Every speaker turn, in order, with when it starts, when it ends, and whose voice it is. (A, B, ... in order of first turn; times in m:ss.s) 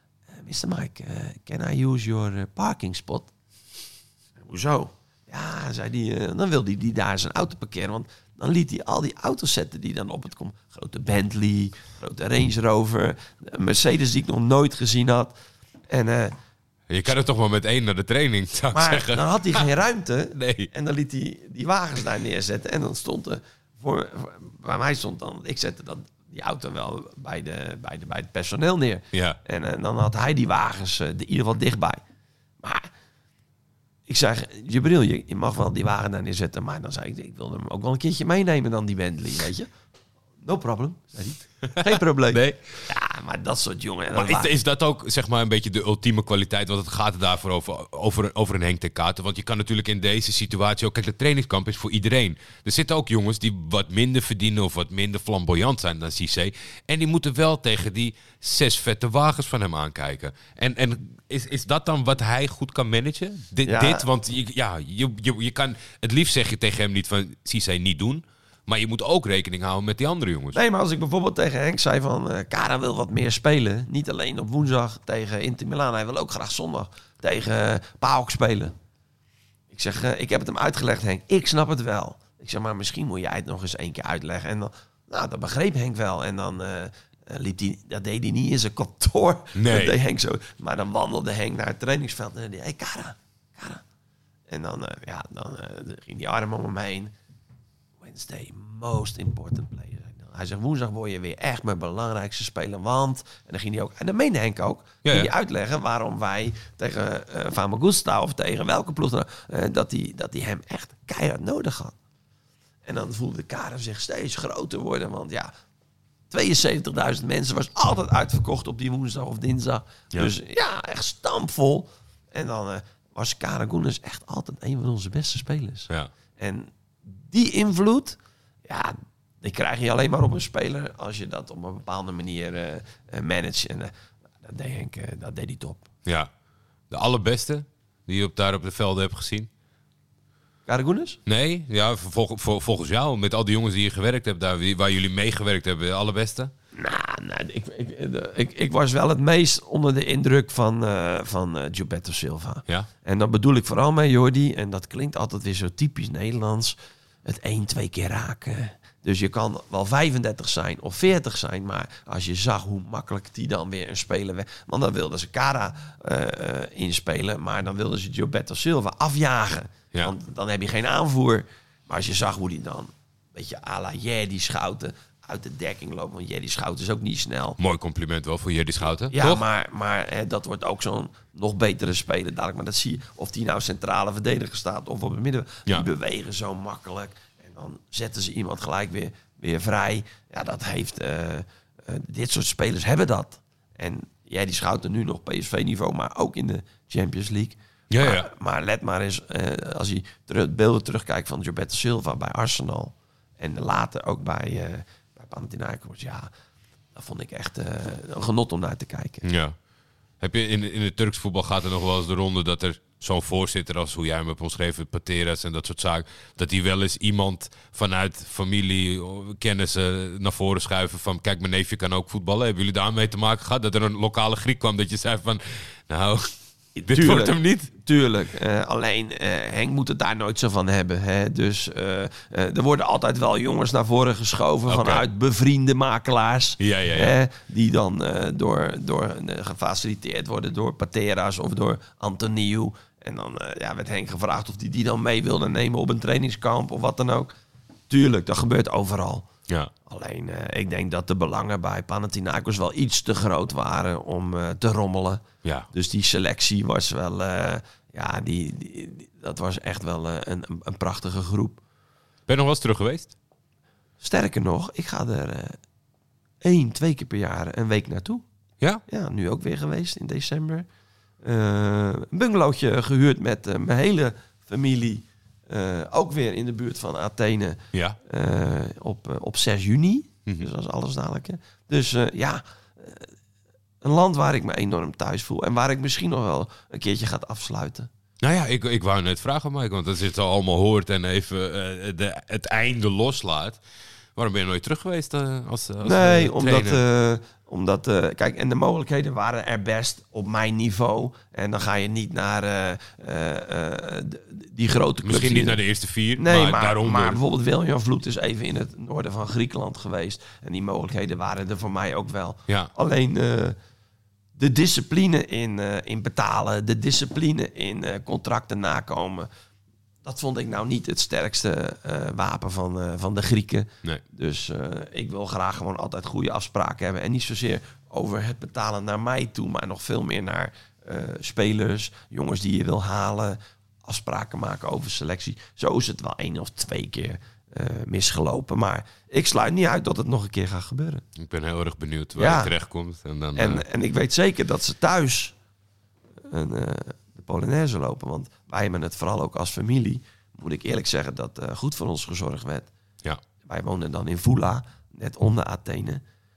0:00.3-0:03.3 A
0:04.4-0:15.3 A
0:15.9-0:16.4 A
0:16.9-0:19.6 B
0:18.7-0:32.0 A
0:20.4-0:20.7 B
0:29.1-0:29.4 B
0:32.6-0:32.9 A
0:34.1-0:39.7 A
0:40.4-0:44.5 A
0:41.6-0:42.7 B
0:44.1-1:10.6 B
1:03.6-1:04.1 A
1:10.5-1:18.7 A
1:19.7-1:33.8 A
1:29.5-1:30.0 B
1:34.5-1:37.1 A
1:38.0-1:51.9 A
1:45.0-1:45.3 B
1:52.8-1:55.5 A
1:56.3-2:13.9 A
2:14.4-2:15.9 A
2:16.0-2:16.3 B
2:16.9-2:19.5 B
2:20.6-2:21.2 A
2:21.2-2:26.5 B
2:26.7-2:57.6 A
2:57.6-2:59.4 B
2:59.1-3:26.3 A
3:17.9-3:18.3 B
3:26.9-3:29.2 A
3:29.2-3:29.6 B
3:30.2-3:47.7 B
3:46.8-4:07.3 A
3:54.7-3:55.0 B
3:56.6-3:57.1 B
4:07.9-4:09.2 A
4:09.8-4:21.6 A
4:15.4-4:15.7 B
4:22.3-4:23.1 B
4:24.0-4:25.6 A
4:26.4-4:28.2 A
4:28.9-4:30.6 A
4:31.2-4:43.1 A
4:37.7-4:38.0 B
4:43.8-4:47.9 A
4:48.2-4:53.6 B
4:54.2-4:56.8 B
4:55.8-5:05.6 A
5:05.0-5:07.2 B
5:06.2-5:13.6 A
5:14.4-5:19.3 A
5:20.0-5:41.0 A
5:41.2-5:43.6 B
5:42.2-5:42.5 A
5:43.4-5:45.3 A
5:46.3-5:52.7 A
5:53.4-5:56.0 A